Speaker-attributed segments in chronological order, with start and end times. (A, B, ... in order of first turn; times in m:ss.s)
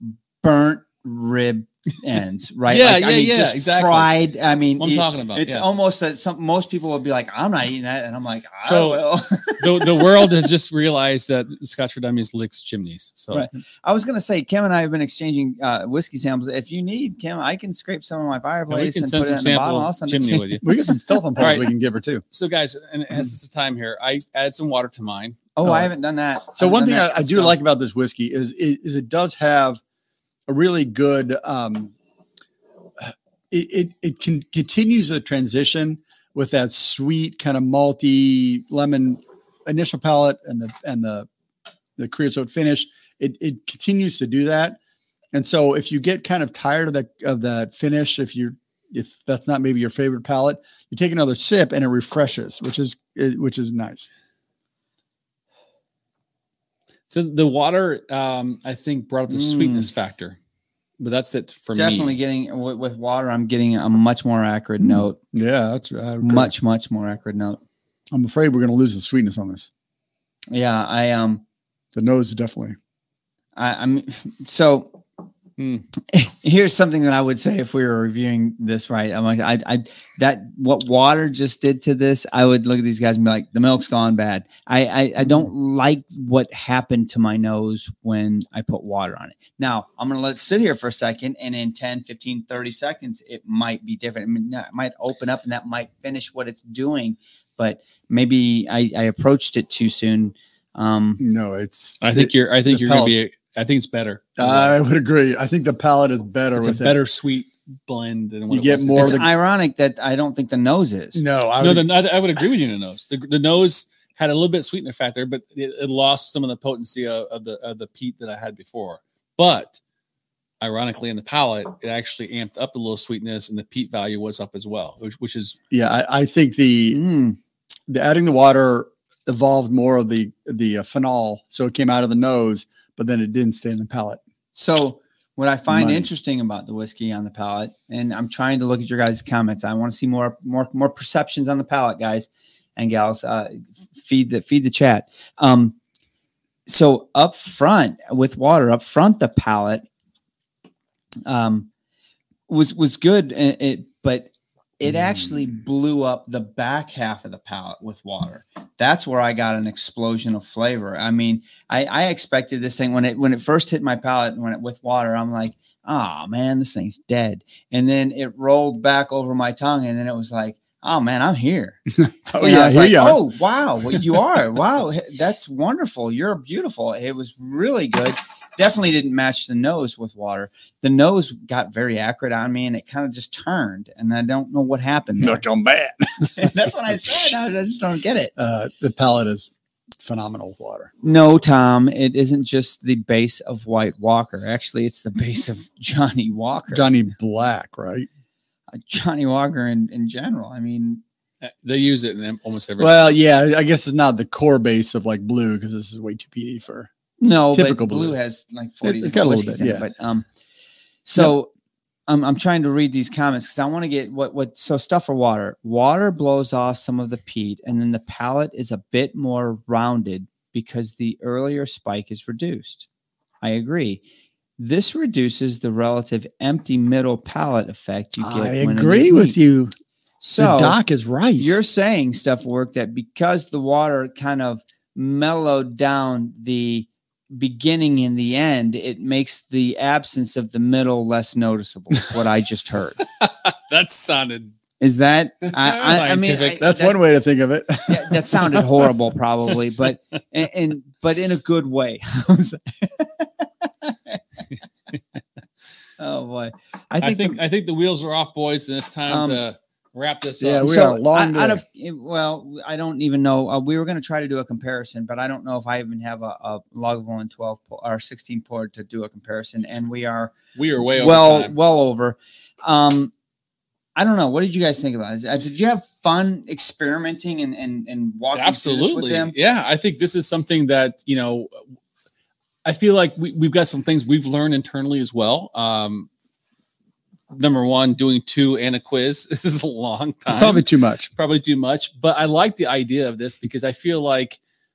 0:00.4-0:10.3 A
0:02.7-0:04.2 B
0:04.8-0:05.7 B
0:08.6-0:13.5 B
0:13.3-0:20.6 A
0:18.7-0:20.7 B
0:20.6-0:22.2 C
0:21.4-0:21.7 B
0:22.3-0:25.5 B
0:25.6-0:27.6 A
0:25.6-0:25.9 C
0:26.6-0:29.8 C
0:30.5-0:31.9 C
0:33.0-0:41.3 C
0:42.0-0:44.8 C
0:45.3-0:54.1 C
0:57.1-1:00.4 B
0:59.3-0:59.9 A
1:01.0-1:02.2 B
1:01.7-1:05.2 A
1:04.8-1:06.5 C
1:06.2-1:07.6 A
1:08.1-1:09.7 C
1:10.5-1:11.4 A
1:11.9-1:12.8 C
1:13.6-1:15.0 A
1:15.6-1:15.8 B
1:16.1-1:41.2 A
1:41.2-1:43.2 C
1:42.0-1:44.8 B
1:44.4-1:47.0 C
1:46.6-1:49.3 B
1:48.5-1:49.3 C
1:49.0-1:51.2 A
1:51.2-1:51.9 C
1:51.6-1:59.8 B
2:00.6-2:05.6 B
2:05.7-2:07.0 C
2:06.9-2:07.4 A
2:07.9-2:14.2 C
2:14.5-2:25.8 A
2:15.7-2:16.1 C
2:26.7-2:29.9 A
2:31.3-2:31.7 A
2:32.5-2:51.8 A
2:51.9-2:53.2 C
2:52.3-3:05.4 A
3:05.2-3:06.7 C
3:06.3-3:08.3 A
3:08.4-3:10.9 C
3:11.0-3:16.9 A
3:16.7-3:18.1 C
3:18.8-3:21.0 A
3:21.4-3:23.1 B
3:22.8-3:26.9 C
3:27.2-3:30.3 A
3:27.5-3:28.2 C
3:28.8-3:29.9 C
3:31.1-3:31.5 A
3:32.1-3:42.9 A
3:43.4-3:44.0 A
3:44.6-3:49.4 A
3:48.2-3:49.7 C
3:50.2-3:50.8 A
3:50.4-3:51.5 C
3:51.4-4:03.0 A
4:03.2-4:04.6 B
4:04.8-4:07.0 A
4:05.6-4:06.6 B
4:06.6-4:08.9 C
4:07.9-4:14.2 A
4:16.0-4:17.4 A
4:17.0-4:20.7 B
4:19.1-4:19.4 A
4:20.4-4:21.6 C
4:20.6-4:30.3 A
4:30.6-4:31.5 B
4:31.0-4:33.1 A
4:34.0-4:39.3 A
4:38.3-4:41.6 B
4:42.6-4:46.1 B
4:47.3-4:54.4 B
4:50.3-4:51.1 C